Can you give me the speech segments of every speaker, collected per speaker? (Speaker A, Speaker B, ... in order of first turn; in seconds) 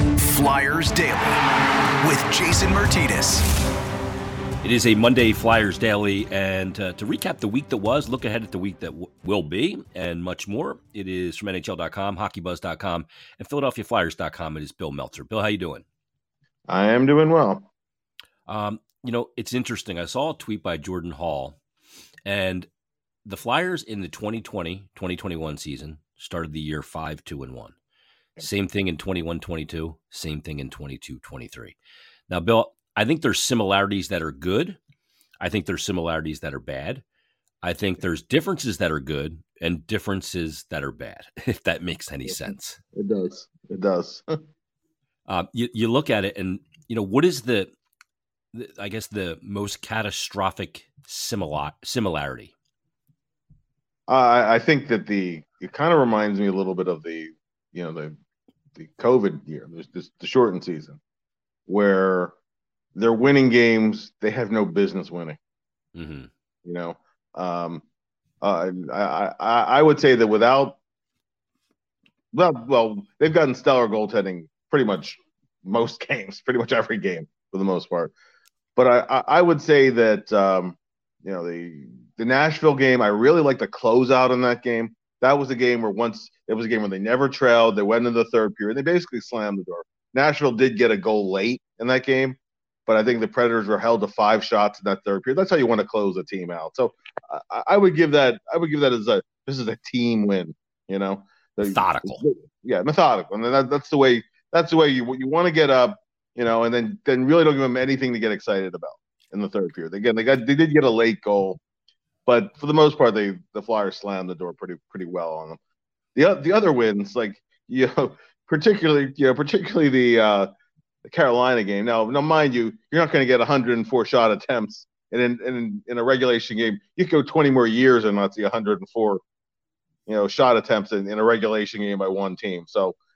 Speaker A: 0.2-1.4, 2.0-3.5
Speaker B: 4.6-15.8, 18.5-21.6, 22.2-22.7, 23.2-27.8, 28.4-31.8, 32.3-34.8, 35.4-37.0, 37.6-42.8, 45.3-47.7, 48.5-52.5, 65.9-66.3, 101.6-102.2
Speaker C: 16.7-17.7, 42.3-44.4, 54.1-58.1, 58.8-61.0, 61.7-62.3, 63.0-65.4, 66.6-67.8, 68.4-70.8, 72.3-78.1, 78.8-111.6, 112.2-115.6, 116.1-120.5, 121.0-129.2, 130.1-133.0